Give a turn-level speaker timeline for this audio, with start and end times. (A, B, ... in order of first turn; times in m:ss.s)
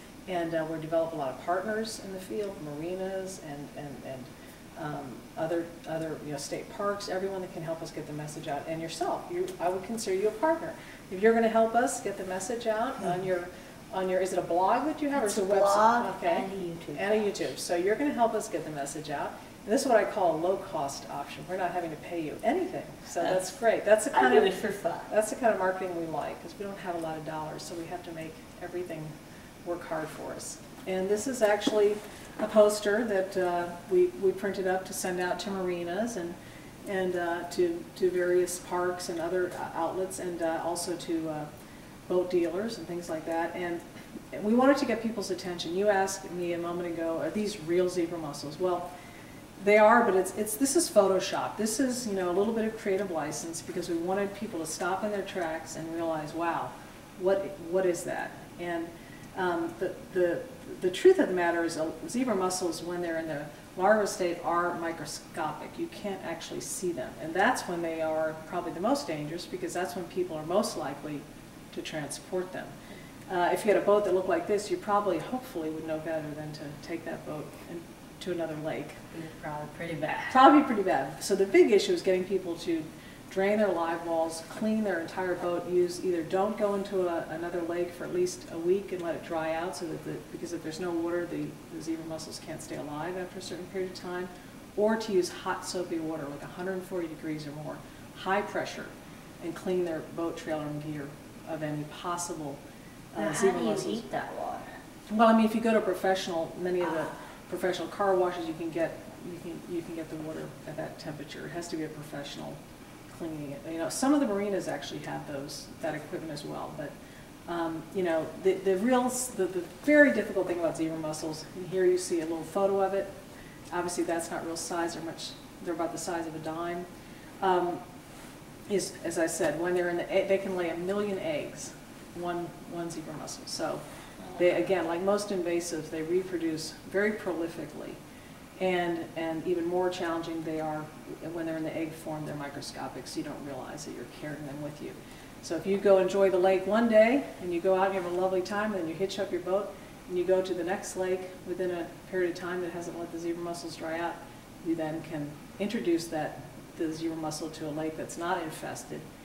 0:00.3-0:29.1 A
0:15.2-0:17.2 B
0:24.1-0:25.1 B
0:29.6-0:41.5 A
0:42.1-0:48.9 A
0:49.6-1:12.7 A
1:13.3-1:19.0 A
1:19.1-1:20.4 B
1:20.3-1:42.6 A
1:43.1-1:44.0 A
1:43.2-1:44.7 B
1:45.1-1:56.9 A
1:57.5-2:03.1 A
2:03.7-2:06.9 A
2:07.4-2:07.8 A
2:08.7-2:13.8 A
2:14.3-2:18.0 A
2:18.6-2:39.0 A